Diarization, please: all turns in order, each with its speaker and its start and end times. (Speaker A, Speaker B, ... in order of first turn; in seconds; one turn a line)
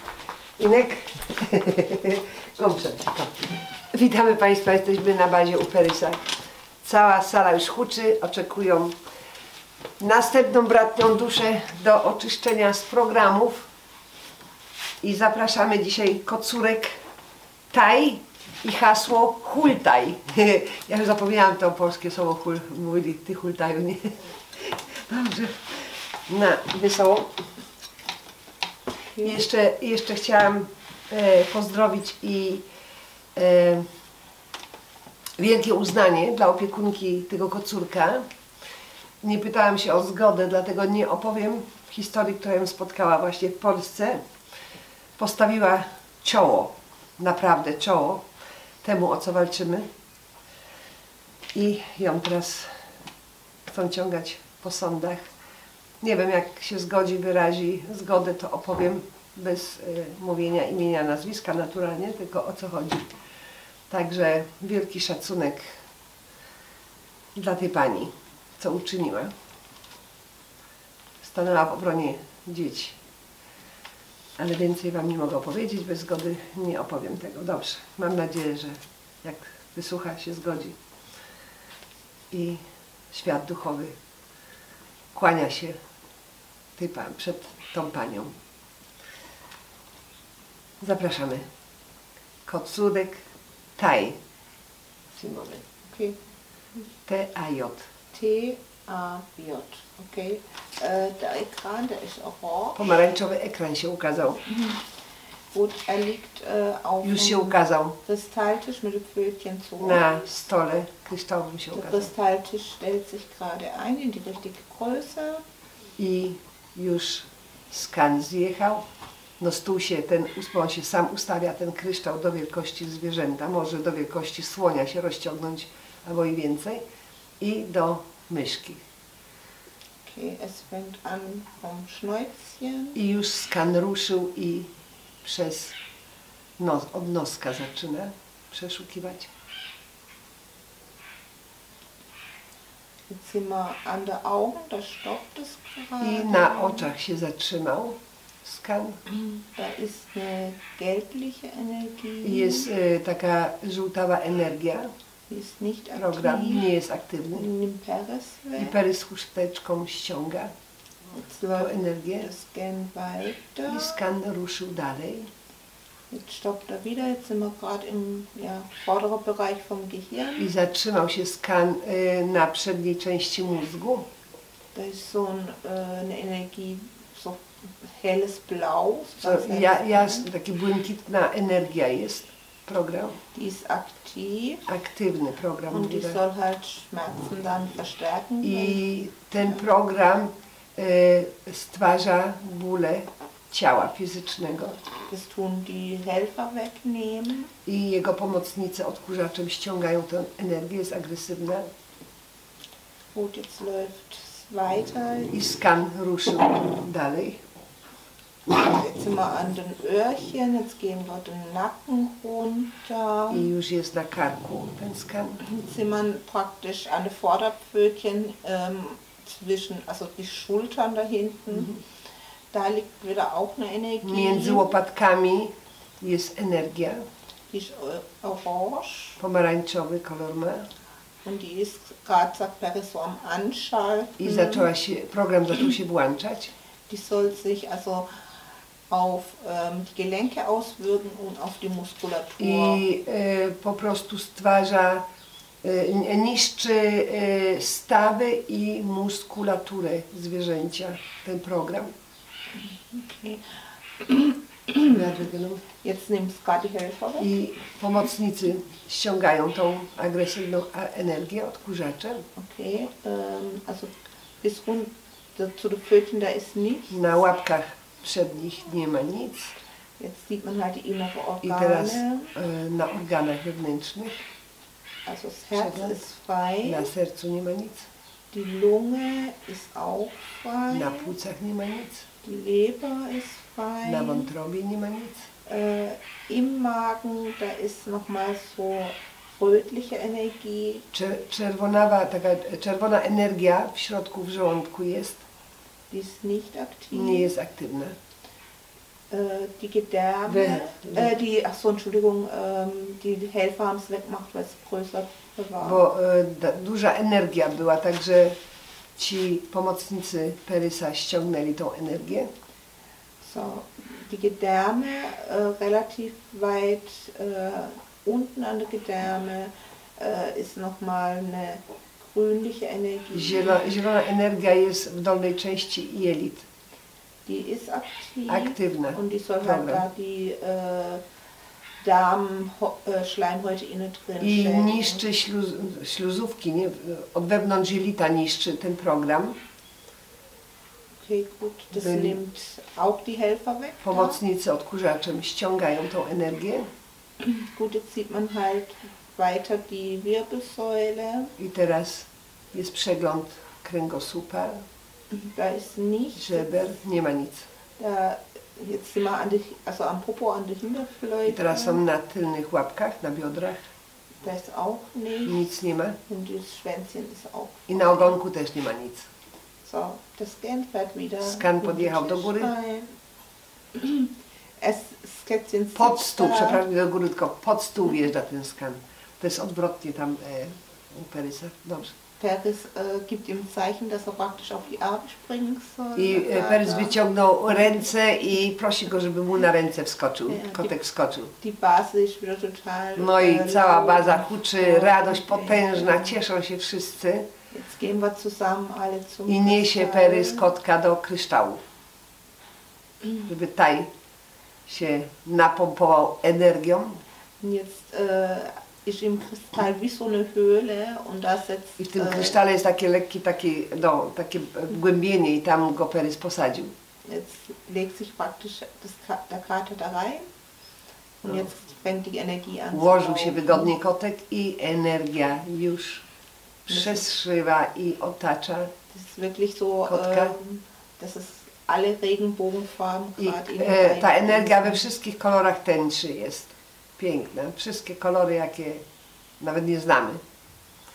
Speaker A: 0.6-6.3
Speaker A: 6.8-9.0
Speaker A: 10.0-13.7
Speaker A: 15.0-16.9
Speaker A: 17.7-27.3
Speaker B: 29.1-29.4
Speaker A: 29.2-32.7
Speaker A: 33.4-33.9
Speaker A: 35.4-38.2
Speaker A: 39.2-44.2
Speaker A: 45.2-48.2
Speaker A: 48.8-49.9
Speaker A: 51.5-52.7
Speaker A: 53.7-55.2
Speaker A: 56.0-63.2
Speaker A: 63.9-65.8
Speaker A: 67.3-69.3
Speaker A: 71.2-73.0
Speaker A: 74.4-80.8
Speaker A: 82.3-82.6
Speaker A: 83.1-83.9
Speaker A: 85.1-85.8
Speaker A: 86.8-88.3
Speaker A: 90.8-91.5
Speaker A: 92.5-93.2
Speaker A: 93.8-94.2
Speaker A: 95.1-95.7
Speaker B: 95.8-96.2
Speaker A: 97.1-97.9
Speaker B: 98.1-102.8
Speaker A: 102.8-104.4
Speaker B: 104.5-104.9
Speaker B: 105.5-110.1
Speaker A: 107.0-108.0
Speaker A: 109.8-112.1
Speaker B: 111.7-115.4
Speaker A: 116.0-118.8
Speaker A: 119.4-126.8
Speaker A: 127.4-128.8
Speaker B: 130.1-133.0
Speaker A: 132.9-134.7
Speaker A: 135.2-135.8
Speaker A: 136.6-139.3
Speaker B: 143.1-146.9
Speaker A: 146.0-149.0
Speaker B: 149.1-152.7
Speaker A: 152.2-154.9
Speaker B: 155.3-156.7
Speaker A: 156.0-157.5
Speaker B: 157.3-158.8
Speaker A: 158.6-160.5
Speaker B: 161.1-164.1
Speaker A: 161.5-162.3
Speaker A: 163.7-165.3
Speaker B: 166.1-170.5
Speaker A: 170.4-174.1
Speaker B: 174.7-180.3
Speaker A: 179.2-183.2
Speaker B: 183.3-184.7
Speaker A: 184.7-186.2
Speaker B: 185.7-189.7
Speaker A: 188.4-194.8
Speaker B: 195.1-197.5
Speaker A: 197.7-201.7
Speaker B: 203.1-205.4
Speaker A: 205.3-207.4
Speaker B: 208.5-213.5
Speaker A: 213.3-215.4
Speaker B: 215.4-221.8
Speaker B: 222.5-224.7
Speaker A: 224.0-227.1
Speaker B: 227.5-229.2
Speaker A: 229.2-230.7
Speaker B: 231.2-234.7
Speaker A: 234.2-236.5
Speaker B: 236.9-238.1
Speaker B: 238.9-242.8
Speaker A: 242.4-245.1
Speaker A: 245.6-251.9
Speaker B: 252.6-255.0
Speaker A: 254.8-255.6
Speaker B: 255.8-257.3
Speaker A: 257.2-262.3
Speaker B: 262.4-267.0
Speaker A: 266.9-269.6
Speaker B: 270.0-272.3
Speaker A: 271.4-274.2
Speaker B: 275.1-276.9
Speaker A: 275.5-276.0
Speaker A: 276.6-277.9
Speaker B: 278.3-281.1
Speaker A: 280.7-282.1
Speaker B: 282.2-284.3
Speaker A: 283.8-285.3
Speaker B: 285.5-290.9
Speaker A: 290.9-295.2
Speaker B: 295.9-297.3
Speaker A: 296.9-298.0
Speaker B: 299.1-305.9
Speaker A: 300.3-301.1
Speaker A: 305.6-308.4
Speaker A: 309.0-312.3
Speaker B: 313.2-323.6
Speaker A: 323.1-326.5
Speaker B: 327.3-331.0
Speaker A: 328.3-329.9
Speaker B: 331.8-335.1
Speaker A: 334.2-339.4
Speaker B: 341.0-344.2
Speaker A: 341.7-342.2
Speaker A: 343.8-346.7
Speaker B: 347.2-351.3
Speaker A: 351.4-354.6
Speaker B: 355.1-356.5
Speaker A: 356.2-357.5
Speaker B: 357.8-361.8
Speaker A: 361.3-363.6
Speaker B: 364.2-365.5
Speaker A: 365.3-366.0
Speaker B: 366.1-367.7
Speaker A: 367.7-369.1
Speaker B: 369.6-372.9
Speaker A: 371.2-372.5
Speaker B: 373.7-376.6
Speaker A: 375.8-381.9
Speaker B: 382.2-387.0
Speaker A: 385.9-391.3
Speaker B: 390.3-390.7
Speaker B: 391.4-396.2
Speaker A: 393.0-397.3
Speaker B: 397.5-400.5
Speaker A: 399.3-401.6
Speaker A: 403.2-403.9
Speaker A: 404.7-407.0
Speaker B: 407.4-412.4
Speaker A: 411.8-416.7
Speaker B: 417.1-420.3
Speaker B: 421.2-423.7
Speaker A: 422.7-426.1
Speaker A: 426.7-428.7
Speaker B: 426.7-427.1
Speaker B: 428.9-434.9
Speaker A: 429.9-430.3
Speaker A: 433.2-438.8
Speaker A: 439.4-440.2